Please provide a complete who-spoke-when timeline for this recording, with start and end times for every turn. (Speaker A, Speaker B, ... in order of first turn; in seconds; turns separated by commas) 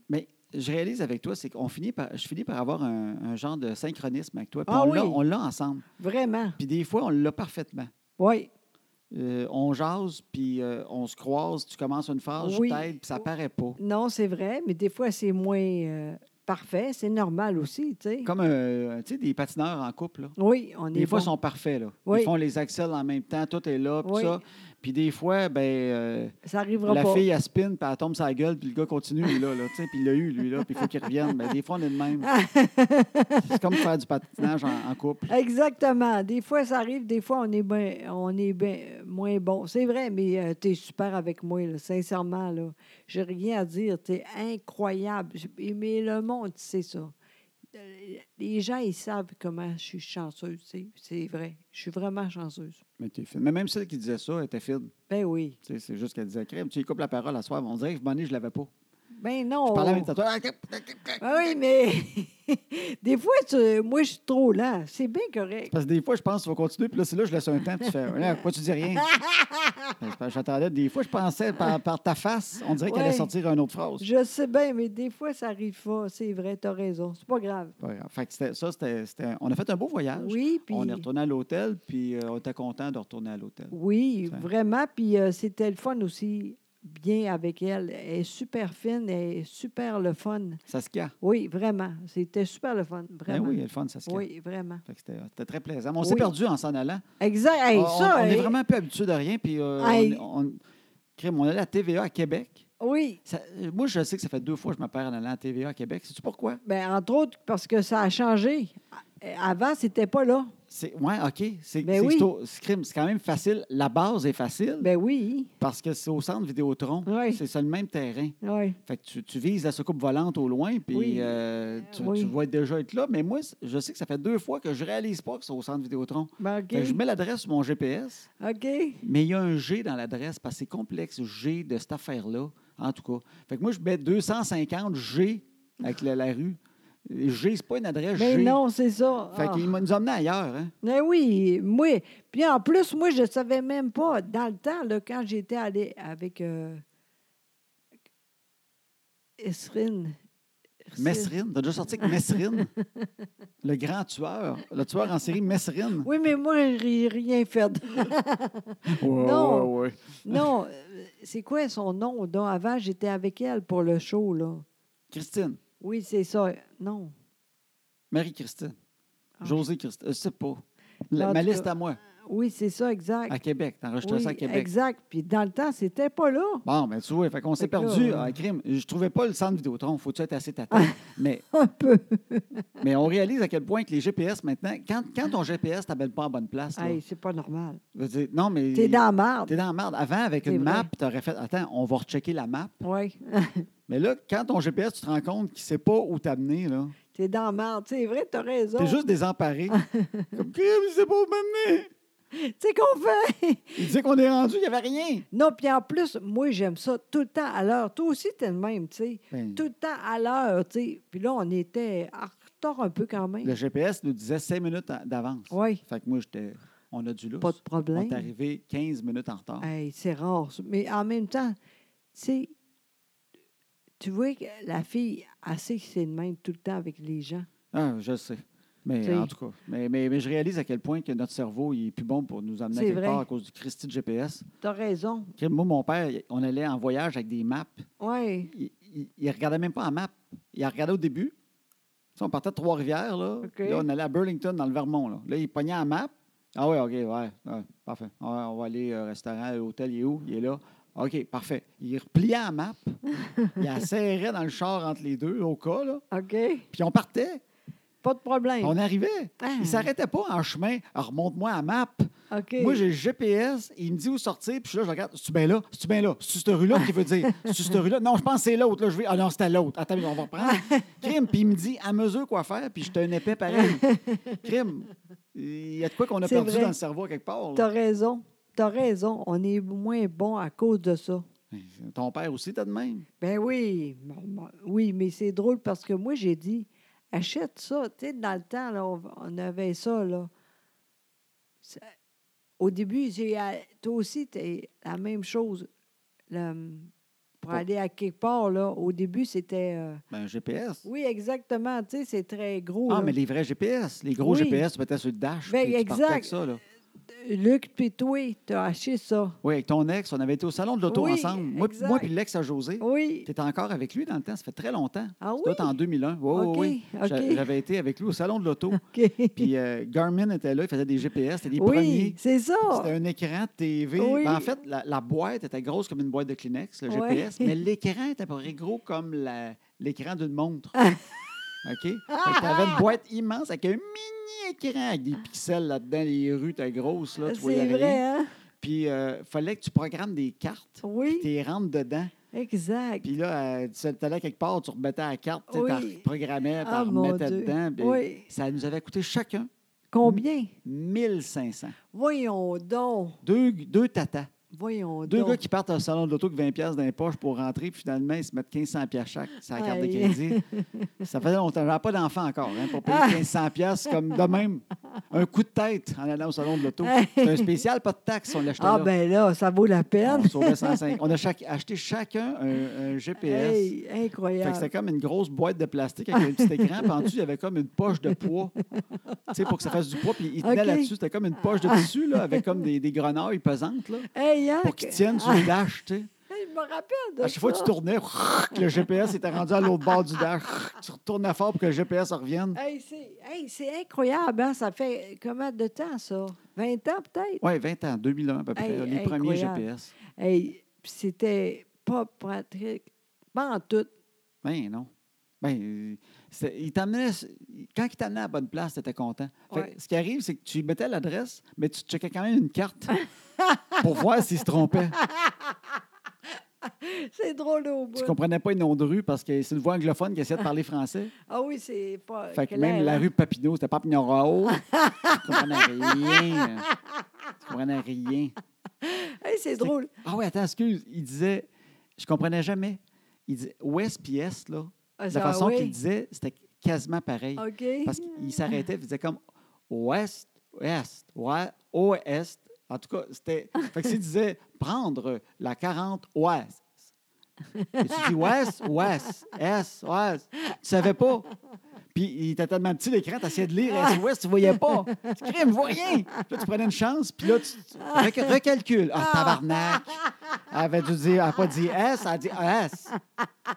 Speaker A: 0.1-5.8, Speaker B: 4.7-5.2, Speaker B: 6.0-6.6, Speaker A: 6.6-7.9, Speaker B: 8.2-8.5, Speaker A: 9.1-13.8, Speaker B: 12.4-12.9, Speaker B: 13.8-18.3, Speaker A: 18.2-20.4, Speaker B: 20.4-21.3, Speaker A: 20.9-32.3, Speaker B: 22.1-22.3, Speaker B: 24.0-24.4, Speaker B: 26.4-27.3, Speaker B: 30.8-31.3, Speaker B: 32.2-33.8, Speaker A: 33.4-35.3, Speaker B: 35.3-47.1, Speaker B: 47.7-52.8, Speaker A: 53.0-54.9, Speaker B: 55.1-55.6, Speaker A: 55.6-58.7, Speaker B: 59.2-60.1, Speaker A: 59.7-61.5, Speaker B: 61.2-65.7, Speaker A: 65.7-69.1, Speaker B: 69.0-69.9, Speaker A: 70.0-74.0, Speaker B: 72.8-73.3, Speaker B: 74.0-77.7, Speaker A: 77.8-83.7, Speaker B: 80.2-81.1, Speaker B: 83.7-90.6, Speaker A: 90.7-91.2, Speaker B: 91.2-94.8, Speaker A: 93.3-94.2, Speaker A: 94.8-97.0, Speaker B: 96.0-96.3, Speaker B: 97.2-98.6, Speaker A: 97.7-100.6, Speaker B: 99.8-100.2, Speaker A: 101.2-102.7, Speaker B: 102.8-103.2, Speaker A: 103.2-106.6, Speaker B: 106.7-110.5, Speaker A: 110.7-114.9, Speaker B: 111.8-112.3, Speaker B: 114.8-115.5, Speaker A: 115.6-128.3, Speaker B: 117.1-117.4, Speaker B: 118.4-118.8, Speaker B: 120.9-121.4, Speaker B: 121.9-122.3, Speaker B: 126.4-127.0, Speaker B: 128.4-129.0, Speaker A: 129.0-138.6, Speaker B: 138.2-139.7, Speaker A: 139.3-140.7, Speaker B: 140.8-146.8, Speaker B: 149.4-150.2, Speaker B: 150.9-151.3, Speaker A: 151.0-152.7, Speaker B: 152.0-153.1, Speaker A: 153.6-156.1, Speaker B: 156.0-159.7, Speaker A: 158.9-160.5, Speaker B: 160.2-164.7, Speaker A: 165.1-165.6, Speaker B: 165.8-167.1, Speaker A: 168.1-168.8, Speaker A: 169.4-172.0, Speaker B: 171.2-173.4, Speaker A: 173.3-174.7, Speaker B: 174.0-176.6, Speaker A: 176.7-181.4, Speaker B: 177.6-178.3, Speaker B: 180.7-182.6, Speaker A: 182.8-187.0, Speaker B: 186.8-187.8, Speaker A: 187.9-192.8, Speaker B: 188.7-189.5, Speaker B: 190.4-190.9, Speaker B: 192.8-193.7, Speaker A: 193.9-197.0, Speaker B: 197.1-199.0, Speaker A: 198.8-199.8, Speaker B: 199.7-200.3, Speaker A: 200.3-201.9, Speaker B: 202.3-203.8, Speaker A: 203.8-205.3, Speaker B: 205.3-213.6, Speaker A: 209.3-209.6, Speaker A: 213.4-219.7, Speaker B: 215.5-215.8, Speaker B: 217.4-218.3, Speaker B: 219.6-221.6, Speaker B: 222.1-222.5, Speaker B: 224.0-227.5, Speaker A: 227.7-234.5, Speaker B: 229.0-229.3, Speaker B: 232.7-233.2, Speaker B: 234.6-235.3, Speaker A: 235.4-237.9, Speaker B: 238.0-238.5, Speaker A: 238.5-241.3, Speaker A: 242.2-253.0, Speaker B: 243.4-243.9, Speaker B: 253.2-253.6, Speaker A: 253.6-256.0, Speaker B: 256.1-256.7, Speaker A: 256.7-257.4, Speaker B: 258.0-258.8, Speaker A: 258.6-273.8, Speaker B: 259.4-259.9, Speaker B: 262.3-262.9, Speaker B: 266.8-267.7, Speaker B: 270.4-271.1, Speaker B: 273.5-274.4, Speaker A: 274.4-277.7, Speaker B: 276.2-276.8, Speaker B: 277.6-281.2, Speaker A: 281.5-283.1, Speaker B: 283.2-290.3, Speaker B: 291.6-291.9, Speaker B: 292.6-295.7, Speaker B: 296.3-296.9, Speaker B: 297.4-300.0, Speaker A: 300.1-300.9, Speaker B: 300.9-303.1, Speaker A: 302.9-306.6, Speaker B: 304.2-304.6, Speaker B: 305.5-306.3, Speaker B: 307.1-309.4, Speaker A: 309.4-318.8, Speaker B: 310.9-312.1, Speaker B: 312.8-313.3, Speaker B: 315.2-315.8, Speaker B: 316.3-317.4, Speaker B: 318.7-319.5, Speaker A: 319.4-322.2, Speaker B: 321.6-322.9, Speaker A: 322.7-330.8, Speaker B: 324.0-324.5, Speaker B: 326.9-327.5, Speaker A: 331.6-338.0, Speaker B: 332.1-332.9, Speaker B: 337.2-338.3, Speaker A: 338.6-342.1, Speaker B: 340.8-341.3, Speaker B: 342.3-343.1, Speaker A: 343.0-349.5, Speaker B: 345.5-346.1, Speaker B: 346.6-348.3, Speaker B: 349.9-350.5, Speaker A: 350.0-351.8, Speaker B: 351.9-353.2, Speaker A: 353.2-354.3, Speaker B: 354.5-355.4, Speaker A: 355.1-360.4, Speaker B: 359.5-361.1, Speaker A: 361.0-368.9, Speaker B: 362.6-363.2, Speaker B: 366.8-367.6, Speaker B: 368.6-370.8, Speaker A: 370.0-373.7, Speaker B: 373.2-374.7, Speaker A: 374.4-378.6, Speaker B: 376.2-377.1, Speaker B: 378.8-379.7, Speaker A: 379.3-384.1, Speaker B: 380.4-380.9, Speaker B: 381.6-382.4, Speaker B: 384.1-385.5, Speaker A: 384.6-386.1, Speaker B: 386.3-387.7, Speaker A: 387.2-392.6, Speaker B: 392.5-397.4, Speaker A: 397.4-399.9, Speaker B: 398.6-399.7, Speaker B: 400.2-403.9, Speaker A: 404.4-404.9, Speaker A: 405.4-412.9, Speaker B: 413.0-413.8, Speaker A: 413.8-415.0, Speaker B: 415.0-415.6, Speaker B: 416.6-418.2, Speaker A: 417.9-421.1, Speaker B: 421.3-423.1, Speaker A: 422.3-426.7, Speaker B: 424.5-426.7, Speaker A: 427.4-428.3, Speaker B: 428.8-429.9, Speaker A: 429.6-439.2, Speaker B: 435.0-435.8, Speaker B: 437.4-438.4, Speaker A: 439.7-446.8, Speaker B: 447.6-448.4, Speaker A: 447.8-451.3, Speaker A: 451.9-460.0, Speaker B: 453.7-454.0, Speaker B: 454.5-456.3, Speaker B: 457.8-458.4, Speaker B: 459.0-460.4, Speaker A: 460.5-462.9